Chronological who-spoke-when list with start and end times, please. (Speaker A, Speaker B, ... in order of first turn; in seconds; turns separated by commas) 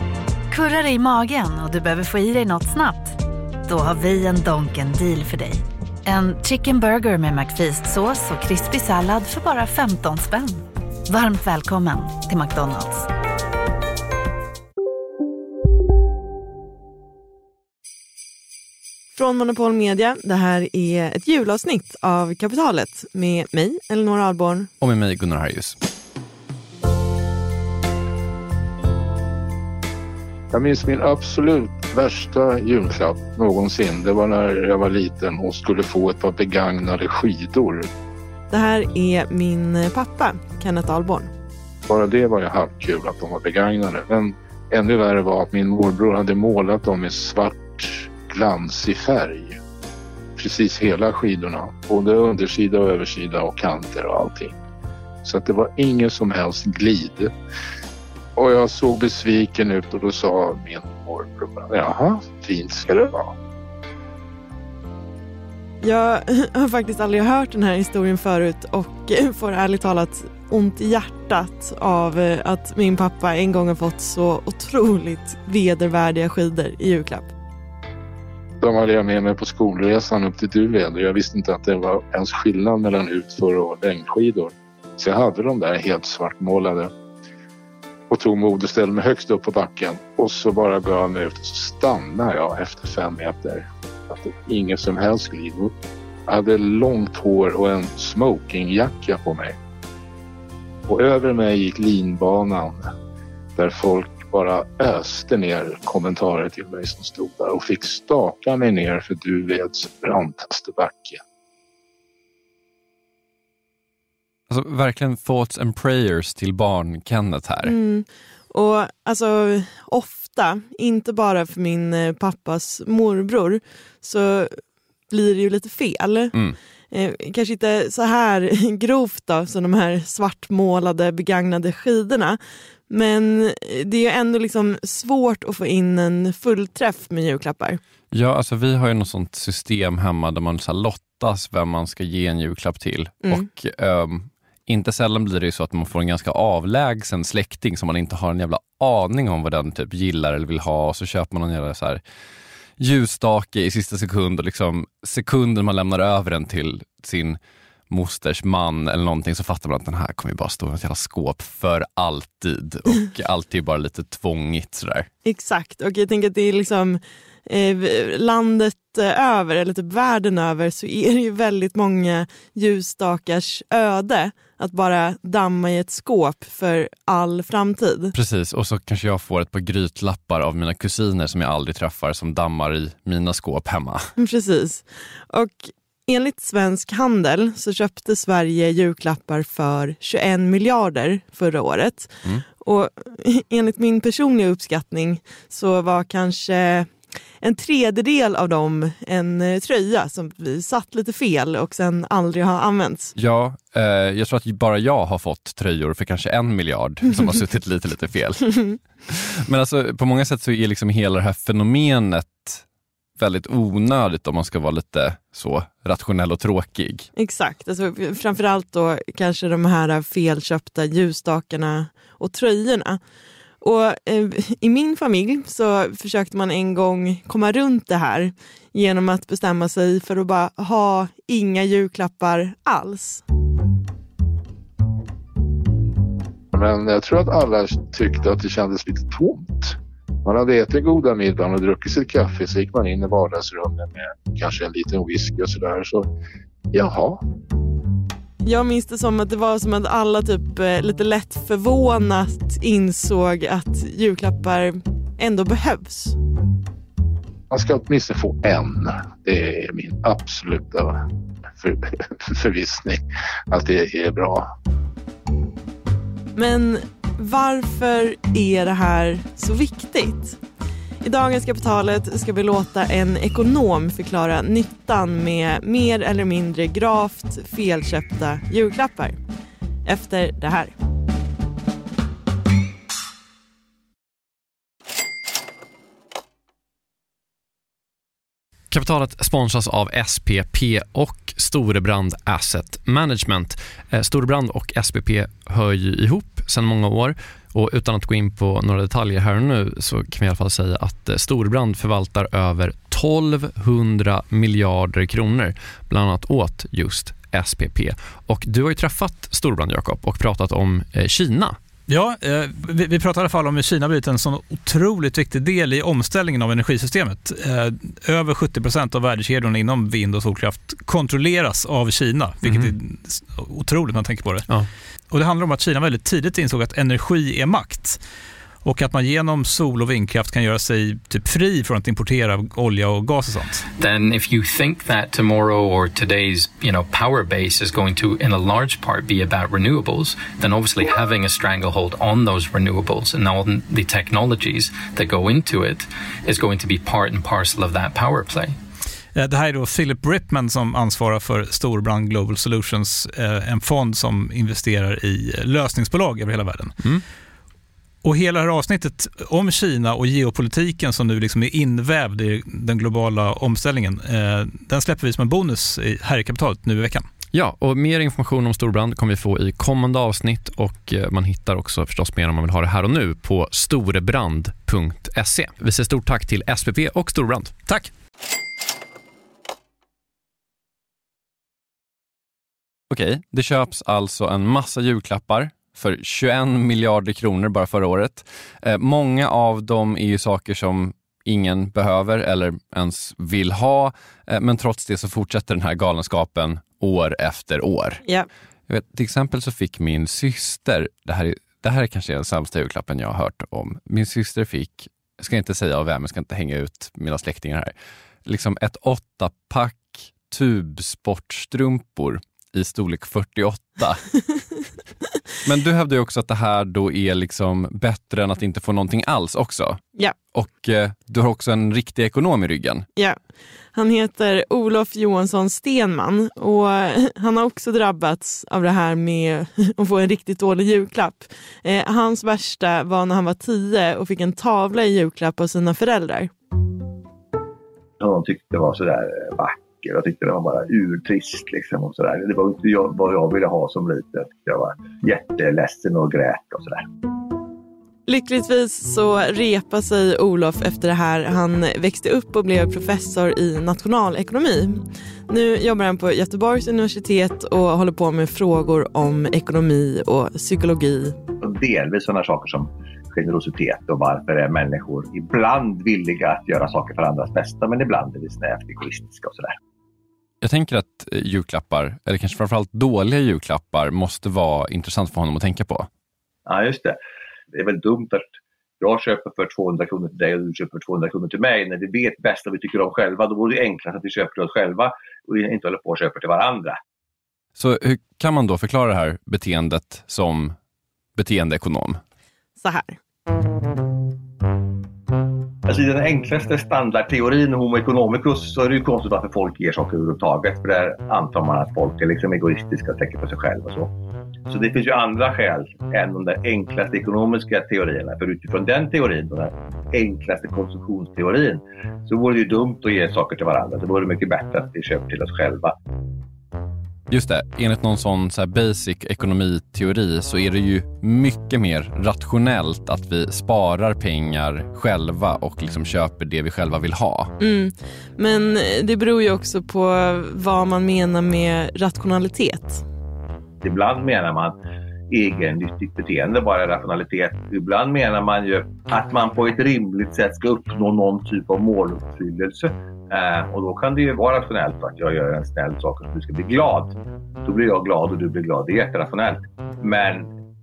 Speaker A: 0.5-13.1, Speaker B: 19.1-24.7, Speaker C: 24.8-25.8, Speaker D: 30.5-37.9, Speaker B: 38.5-41.3, Speaker D: 41.9-49.6, Speaker D: 50.4-54.5, Speaker D: 55.2-57.3, Speaker D: 58.4-63.3, Speaker B: 65.8-77.3, Speaker D: 78.6-86.9, Speaker D: 88.1-95.7, Speaker D: 96.3-99.5, Speaker D: 100.9-102.9, Speaker D: 103.5-111.2, Speaker C: 114.5-117.7, Speaker B: 117.6-126.3, Speaker B: 126.9-137.8, Speaker C: 138.1-152.0, Speaker C: 152.8-157.4, Speaker C: 157.9-165.1, Speaker B: 165.2-178.1, Speaker C: 178.1-184.1, Speaker B: 184.2-203.1, Speaker C: 203.1-212.6, Speaker C: 213.2-217.1, Speaker B: 217.2-223.0, Speaker B: 223.6-233.2, Speaker D: 236.5-246.1, Speaker D: 246.7-247.2, Speaker B: 248.4-256.2, Speaker D: 257.5-261.0, Speaker D: 261.6-264.5, Speaker B: 266.3-270.4, Speaker B: 271.0-279.2, Speaker B: 279.9-280.7, Speaker C: 288.7-311.6, Speaker E: 311.9-324.5, Speaker C: 322.4-322.7, Speaker E: 325.1-328.0, Speaker E: 328.6-333.7, Speaker F: 333.8-348.6, Speaker E: 349.1-356.8, Speaker E: 358.0-367.1, Speaker C: 367.3-377.5, Speaker C: 382.9-398.0, Speaker C: 398.7-407.7, Speaker C: 408.2-414.0, Speaker C: 415.4-422.9, Speaker B: 423.7-436.3, Speaker G: 438.0-446.8, Speaker B: 448.1-461.1, Speaker G: 461.4-469.6, Speaker C: 470.4-475.9, Speaker G: 476.4-477.0, Speaker G: 477.5-486.8, Speaker C: 487.6-490.6, Speaker C: 491.1-492.0, Speaker B: 492.6-493.0, Speaker G: 495.6-503.9, Speaker G: 504.5-515.7, Speaker C: 517.1-527.3, Speaker B: 527.4-532.8, Speaker G: 533.6-534.6, Speaker G: 535.1-550.3